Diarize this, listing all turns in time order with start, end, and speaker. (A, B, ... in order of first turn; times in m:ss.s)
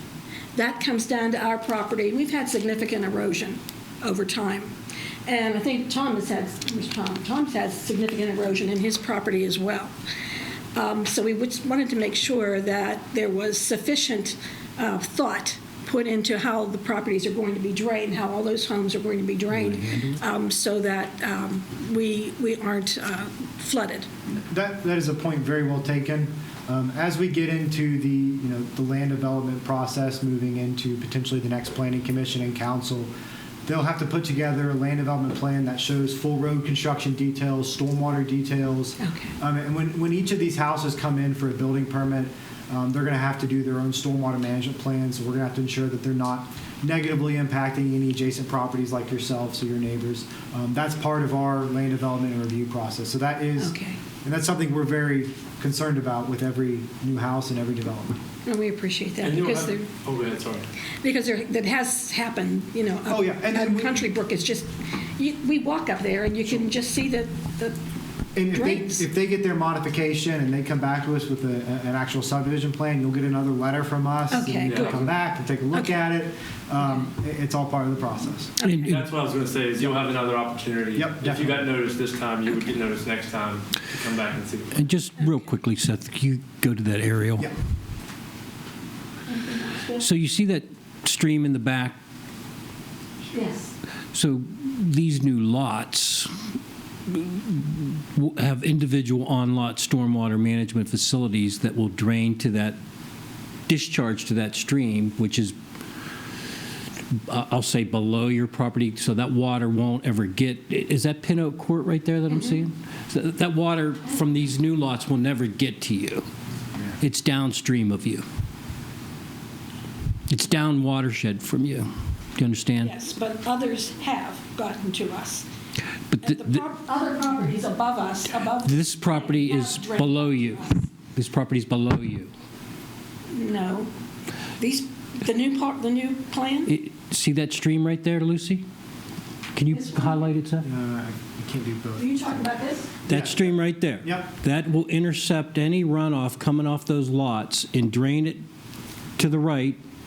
0:00.6-0:04.7 A
0:05.3-0:09.9 A
0:10.7-0:24.1 A
0:19.5-0:20.2 B
0:24.5-0:33.1 C
0:33.7-0:58.2 C
0:39.0-0:39.3 A
0:53.6-0:54.0 A
0:58.5-0:59.9 A
0:59.2-1:00.7 D
1:01.0-1:07.8 A
1:03.1-1:04.0 C
1:08.4-1:18.6 C
1:08.5-1:09.1 A
1:14.3-1:15.0 A
1:14.6-1:15.1 D
1:15.7-1:16.0 A
1:18.6-1:18.9 A
1:18.6-1:19.0 B
1:18.8-1:24.8 D
1:21.0-1:21.7 C
1:24.7-1:27.5 B
1:29.3-1:30.1 A
1:30.0-1:32.0 B
1:33.3-1:33.7 A
1:34.1-1:36.3 B
1:37.1-1:42.8 B
1:43.7-1:45.6 B
1:47.3-1:56.3 B
1:57.0-1:58.2 B
2:00.3-2:02.9 B
2:02.8-2:05.5 A
2:06.1-2:06.6 B
2:06.2-2:10.8 A
2:08.6-2:12.3 B
2:13.3-2:13.9 A
2:14.6-2:16.7 A
2:16.7-2:18.6 B
2:19.5-2:20.7 B
2:19.7-2:20.2 A
2:20.6-2:22.2 C
2:22.0-2:22.9 A
2:23.1-2:28.4 B
2:23.1-2:24.3 C
2:29.2-2:29.8 B